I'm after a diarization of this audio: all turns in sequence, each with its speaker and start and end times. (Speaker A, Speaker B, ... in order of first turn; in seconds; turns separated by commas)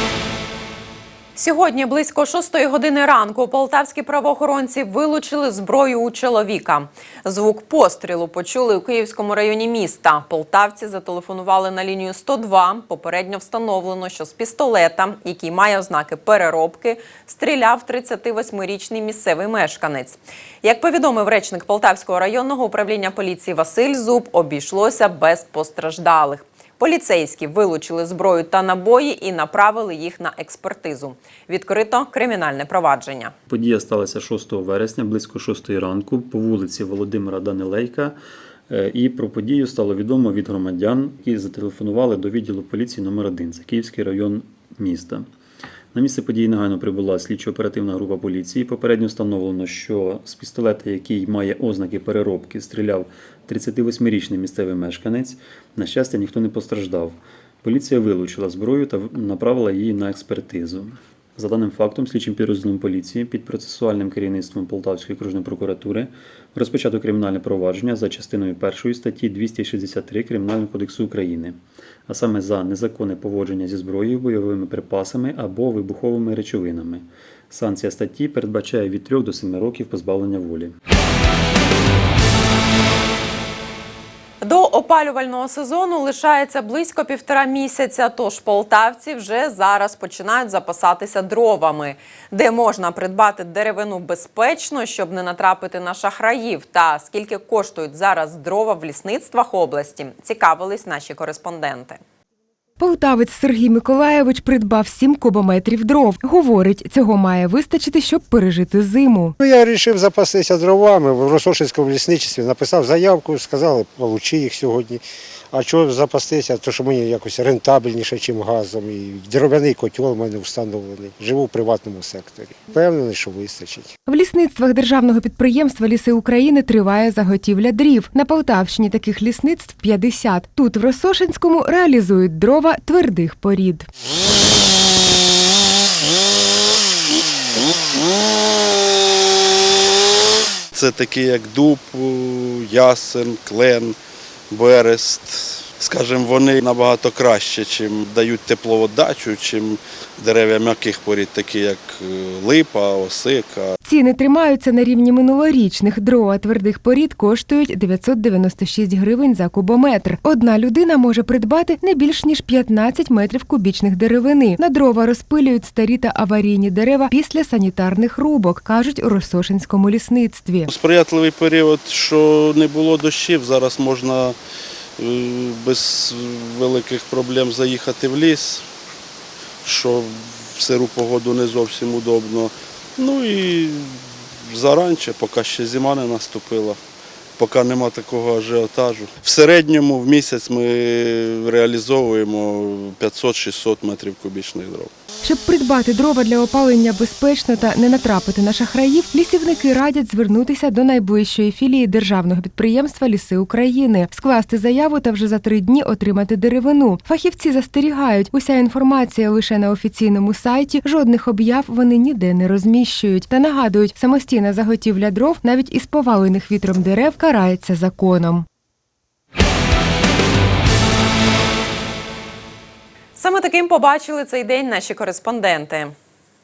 Speaker A: 1.4-33.3, Speaker B: 33.5-38.2, Speaker B: 38.7-45.3, Speaker B: 45.9-80.7, Speaker A: 84.4-102.0, Speaker C: 102.8-109.3, Speaker D: 109.4-123.9, Speaker C: 124.1-133.9, Speaker E: 140.8-144.0, Speaker E: 144.5-153.8, Speaker C: 153.8-170.7, Speaker E: 170.7-174.4, Speaker E: 175.0-178.6, Speaker E: 179.7-186.8, Speaker E: 187.4-194.9, Speaker C: 195.2-218.4, Speaker A: 223.2-225.9